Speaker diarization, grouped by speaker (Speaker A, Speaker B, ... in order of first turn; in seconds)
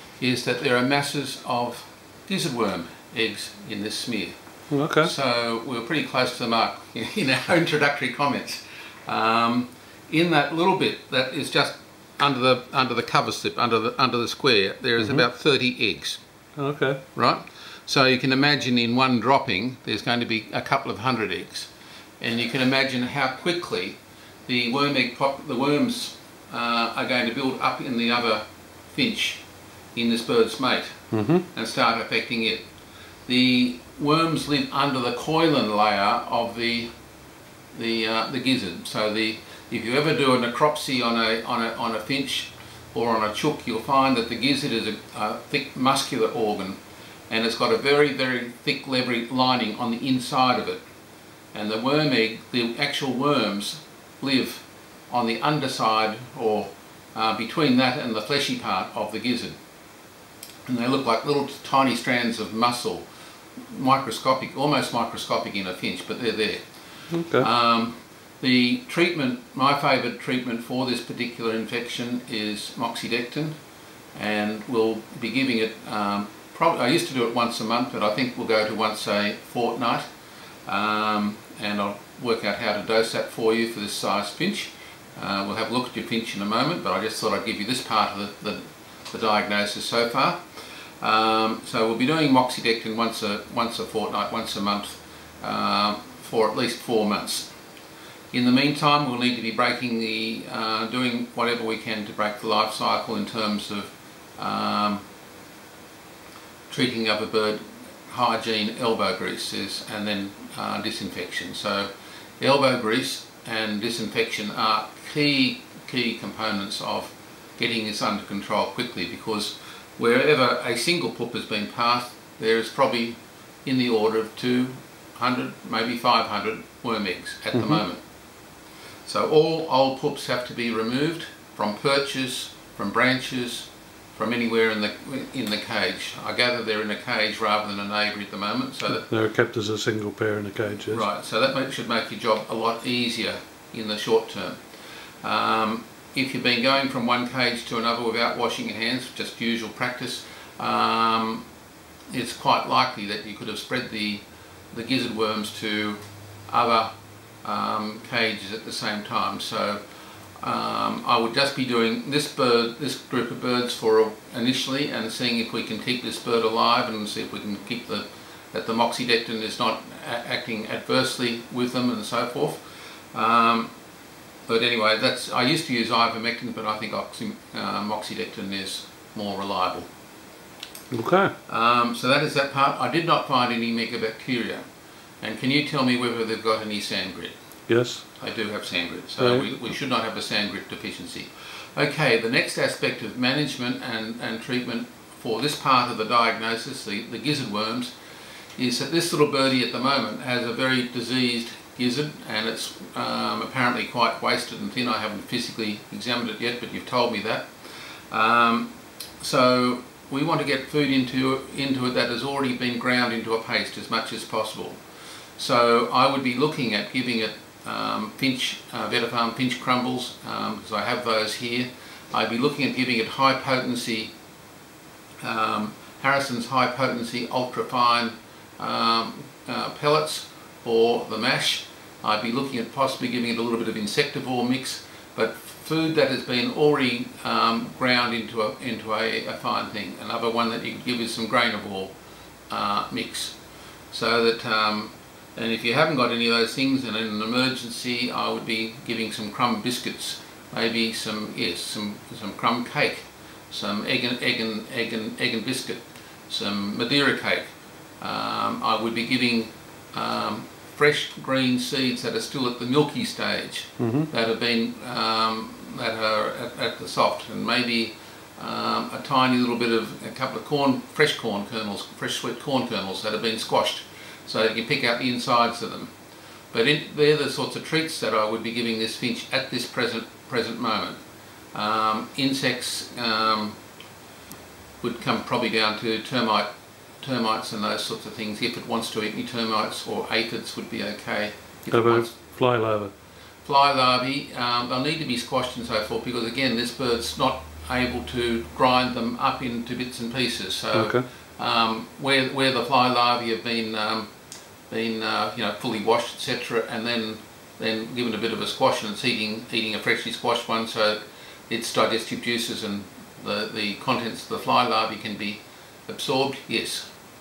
Speaker A: 0.2-4.3, 5.0-16.2, 17.1-21.7, 22.2-29.4, 29.9-32.7, 33.3-36.9, 37.8-50.8, 51.5-59.5, 60.7-63.1, 63.7-73.5, 74.2-80.0, 80.7-90.4, 91.0-97.5, 98.3-105.0, 106.7-111.9, 112.4-128.0, 129.1-139.1, 140.9-144.6, 145.2-151.4, 152.1-156.9, 157.4-159.8, 160.4-173.7, 174.5-179.9, 181.5-184.6, 185.2-187.3, 188.2-197.9, 198.6-207.5, 208.1-214.8, 215.4-224.1, 225.2-241.9, 242.5-243.4, 243.9-257.5, 258.0-275.9, 276.5-281.0, 281.5-283.6, 284.8-286.5, 287.0-292.1, 293.4-304.1, 304.7-316.9
Speaker B: 4.7-5.1, 16.6-17.0, 31.1-31.4, 67.1-67.5, 127.5-127.8, 139.0-141.0, 180.9-181.3, 187.7-188.1, 189.2-189.5, 263.8-264.1, 291.7-292.9, 300.7-301.1